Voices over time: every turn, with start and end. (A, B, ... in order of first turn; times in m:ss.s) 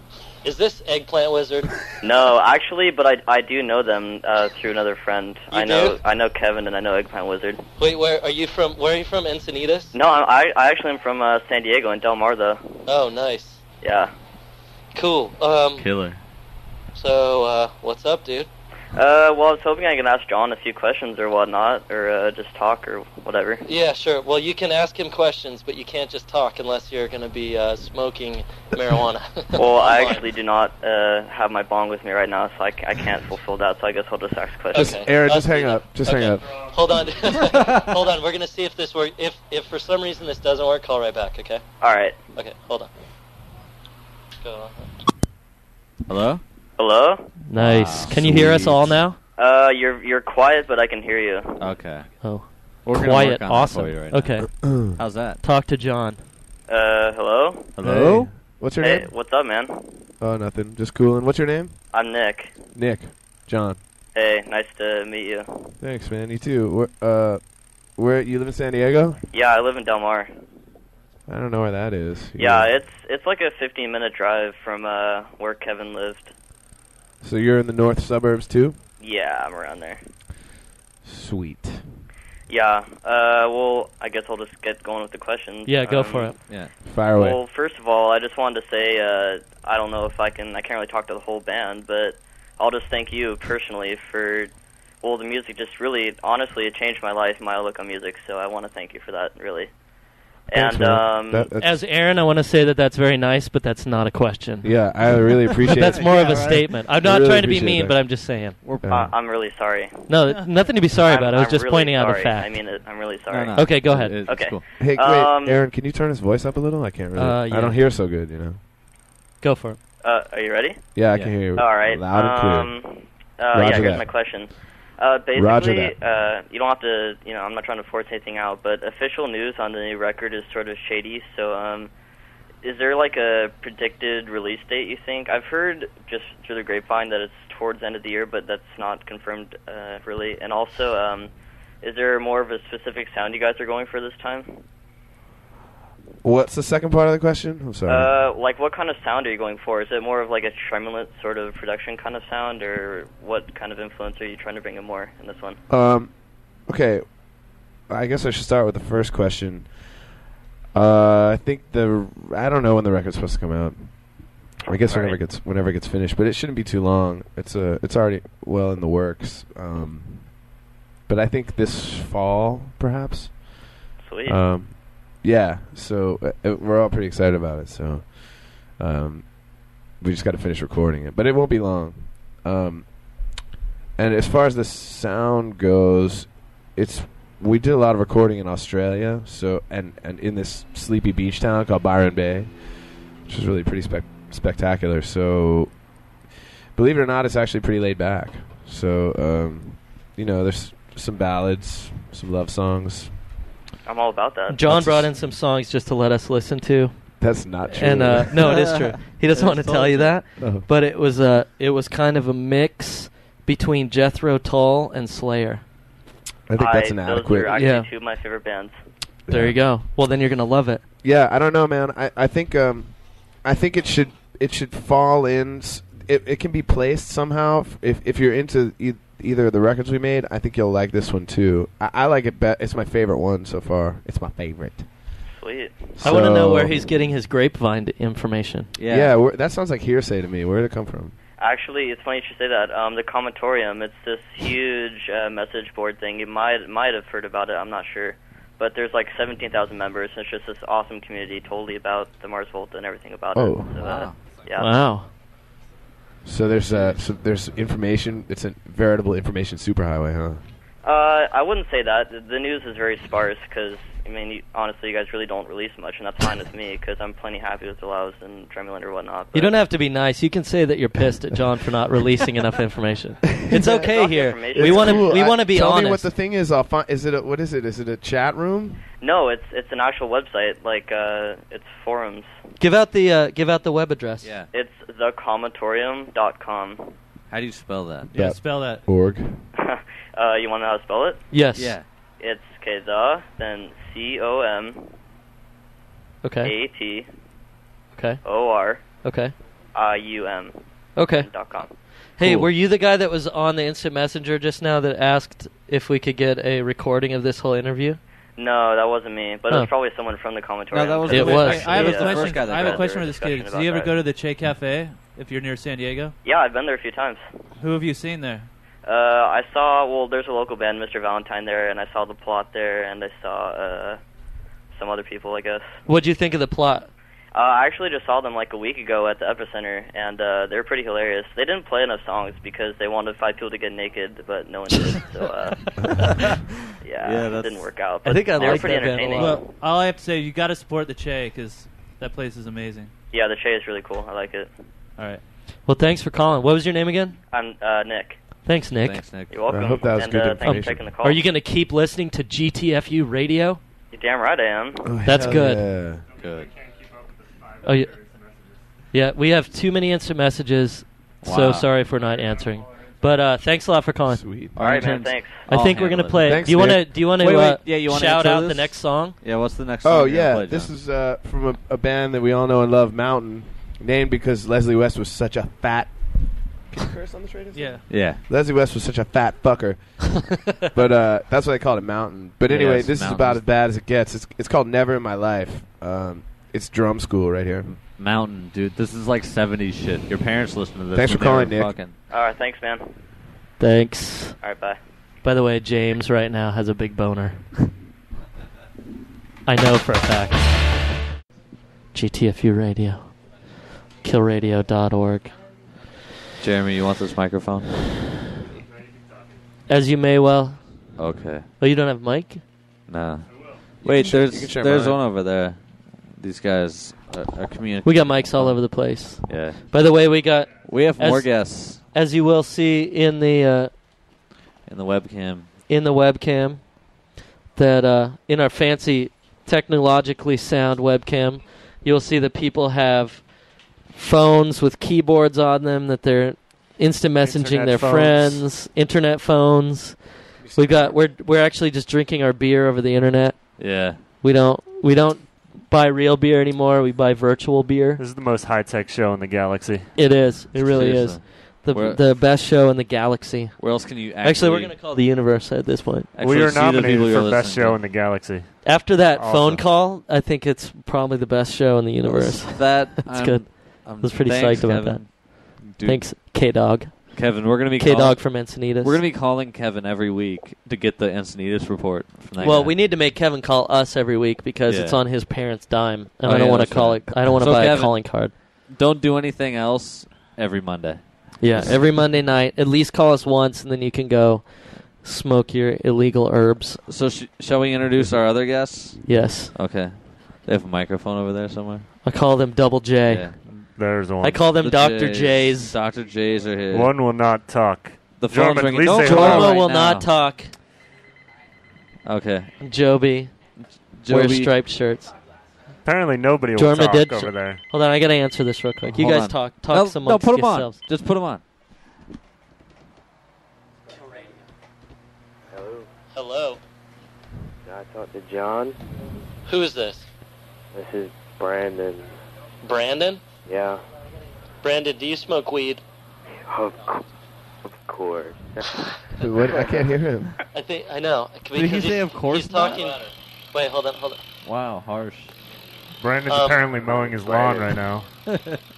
0:00.4-0:01.7 A
0:02.0-0:07.6 B
0:05.5-0:06.0 A
0:07.8-0:09.9 A
0:09.9-0:12.8 B
0:12.9-0:13.6 A
0:13.8-0:14.1 B
0:15.0-0:15.9 A
0:15.8-0:16.2 C
0:17.0-0:18.5 A
0:18.9-0:23.6 B
0:23.6-0:30.2 A
0:29.6-0:35.1 B
0:34.7-0:36.5 D
0:34.7-0:41.6 A
0:41.8-0:42.2 B
0:42.4-0:42.9 A
0:44.4-0:44.9 A
0:46.1-0:46.4 C
0:46.8-0:47.3 B
0:47.4-0:49.2 A
0:47.6-0:48.2 C
0:48.1-0:49.0 D
0:49.4-0:51.6 B
0:51.6-0:55.4 C
0:52.2-0:56.2 A
0:54.6-0:54.9 D
0:56.7-0:57.7 B
0:57.8-0:58.3 C
0:57.8-0:59.1 D
0:58.0-0:58.3 E
0:58.8-1:00.1 B
1:00.2-1:01.8 D
1:01.9-1:02.6 B
1:02.7-1:03.8 D
1:04.1-1:05.8 B
1:05.8-1:09.2 D
1:09.3-1:10.3 B
1:11.3-1:12.7 D
1:12.4-1:16.3 B
1:17.2-1:18.8 D
1:19.0-1:20.0 B
1:21.0-1:21.9 D
1:22.5-1:26.5 B
1:25.6-1:26.4 A
1:26.8-1:27.4 D
1:27.1-1:39.7 B
1:40.5-1:41.5 B
1:40.5-1:41.8 D
1:41.6-1:45.0 A
1:44.6-1:46.2 D
1:45.6-1:48.6 A
1:45.8-1:46.6 C
1:46.0-1:46.6 E
1:47.0-1:48.2 D
1:48.6-1:49.0 C
1:48.8-1:49.1 D
1:48.9-1:50.1 B
1:50.1-1:52.6 A
1:51.0-1:55.6 B
1:53.3-1:54.6 C
1:53.6-1:54.2 A
1:54.8-1:58.6 D
1:57.1-1:57.8 A
1:59.4-1:59.8 A
2:00.0-2:00.9 B
2:01.0-2:02.7 D
2:01.5-2:11.9 B
2:03.5-2:04.1 D
2:05.3-2:06.0 D
2:12.6-2:21.3 B
2:21.8-2:24.6 B
2:26.2-2:28.1 D
2:27.9-2:35.6 B
2:35.7-2:40.0 D
2:40.7-2:50.4 D
2:44.6-2:45.2 B
2:51.1-2:53.7 D
2:54.0-2:54.4 B
2:54.3-3:03.4 D
3:04.0-3:15.9 D
3:16.8-3:23.2 D
3:23.8-3:24.7 B
3:24.5-3:35.7 A
3:24.7-3:25.1 D
3:27.2-3:28.4 D
3:28.4-3:30.2 C
3:30.4-3:30.6 D
3:36.5-3:37.6 D
3:36.6-3:38.8 B
3:37.6-3:37.9 A
3:39.3-3:39.6 D
3:39.3-3:40.8 A
3:41.0-3:54.9 D
3:55.4-3:56.2 B
3:56.0-3:56.9 D
3:56.0-3:58.7 A
3:58.8-3:59.1 C
3:58.9-4:01.1 D
4:01.4-4:14.8 B
4:13.3-4:14.1 D
4:13.8-4:14.2 C
4:14.6-4:15.1 A
4:16.2-4:20.4 D
4:20.8-4:29.5 B
4:29.3-4:36.1 A
4:33.4-4:33.8 D
4:33.7-4:35.1 B
4:34.5-4:38.8 D
4:39.0-4:42.3 B
4:42.6-4:44.3 A
4:44.2-4:44.5 C
4:44.5-4:47.0 B
4:47.3-4:48.1 C
4:48.1-4:49.4 D
4:48.1-4:48.8 E
4:49.6-4:51.3 B
4:51.3-4:51.8 A
4:51.6-4:51.9 C
4:52.2-4:54.9 B
4:56.2-4:56.5 A
4:56.4-4:57.1 B
4:57.9-4:58.2 A
4:58.2-4:58.9 B
4:59.0-4:59.3 A
4:59.8-5:01.8 B
5:01.0-5:01.3 A
5:02.2-5:08.0 A
5:02.2-5:02.5 C
5:08.4-5:14.0 B
5:10.7-5:12.9 C
5:11.1-5:16.1 E
5:11.1-5:11.6 A
5:16.2-5:17.2 B
5:17.6-5:18.5 E
5:18.9-5:24.0 B
5:24.7-5:25.7 B
5:25.9-5:26.9 A
5:27.3-5:36.1 B
5:36.8-5:39.5 B
5:37.0-5:37.7 C
5:38.0-5:39.5 A
5:38.4-5:42.9 E
5:43.1-5:44.5 B
5:45.0-5:45.2 E
5:45.6-5:47.2 A
5:47.3-5:48.2 B
5:48.4-5:49.0 A
5:48.8-5:49.7 C
5:49.3-5:51.2 B
5:49.5-5:50.8 D
5:50.4-5:53.6 A
5:53.9-5:55.4 B
5:54.8-5:56.0 D
5:55.0-5:55.7 A
5:56.1-5:58.6 F
5:56.2-5:56.5 C
5:57.6-5:57.9 A
5:58.9-6:04.2 A
6:01.2-6:01.7 C
6:04.1-6:04.6 D
6:04.6-6:10.7 C
6:04.6-6:05.4 B
6:05.4-6:09.2 A
6:06.2-6:06.9 D
6:09.8-6:27.7 D
6:17.6-6:17.8 A
6:17.9-6:18.2 C
6:22.5-6:23.4 C
6:27.7-6:31.9 C
6:30.9-6:31.8 D
6:32.1-6:32.9 B
6:33.6-6:34.4 A
6:34.4-6:34.8 B
6:35.2-6:37.6 A
6:39.4-6:40.9 A
6:41.9-6:43.3 A
6:44.0-6:45.4 A
6:46.4-6:47.8 C
6:48.5-6:49.4 F
6:49.7-6:51.0 A
6:51.0-6:51.5 C
6:51.6-6:52.4 A
6:52.9-6:53.3 C
6:53.3-6:53.6 F
6:53.8-6:59.6 C
6:53.8-6:55.0 D
6:57.8-7:03.7 A
7:00.6-7:01.8 C
7:04.7-7:05.5 C
7:05.7-7:06.8 A
7:07.6-7:28.0 A
7:17.2-7:18.4 F
7:20.4-7:21.0 D
7:23.6-7:24.0 C
7:28.0-7:29.9 F
7:29.9-7:36.1 A
7:30.6-7:32.1 C
7:33.6-7:34.8 C
7:36.1-7:37.8 C
7:36.2-7:39.6 F
7:38.6-7:49.0 A
7:42.0-7:46.2 C
7:47.1-7:52.8 C
7:52.4-7:58.3 A
7:54.6-7:55.0 C
7:56.2-8:01.8 C
8:01.4-8:06.8 A
8:06.9-8:11.9 C
8:09.1-8:09.5 A
8:12.0-8:13.5 A
8:13.1-8:13.6 C
8:13.8-8:14.5 F
8:14.2-8:15.8 A
8:14.6-8:16.9 C
8:16.7-8:19.6 F
8:18.2-8:20.1 C
8:19.0-8:20.6 A
8:22.0-8:22.6 C
8:22.6-8:23.3 A
8:23.9-8:24.5 C
8:24.1-8:25.1 A
8:25.8-8:27.6 F
8:26.6-8:30.8 A
8:28.9-8:31.4 C
8:35.5-8:35.9 G
8:36.1-8:36.6 A
8:37.6-8:38.8 G
8:39.4-8:40.1 A
8:40.7-8:42.1 G
8:42.6-8:43.2 A
8:43.4-8:43.8 G
8:44.6-8:45.8 A
8:46.4-8:47.0 G
8:47.7-8:48.7 G
8:49.2-8:50.3 D
8:49.4-8:49.9 G
8:50.5-8:53.0 A
8:51.5-8:52.8 C
8:53.5-8:54.2 A
8:54.4-8:55.3 C
8:56.0-8:58.1 F
8:56.3-8:56.7 A
8:58.3-8:58.6 C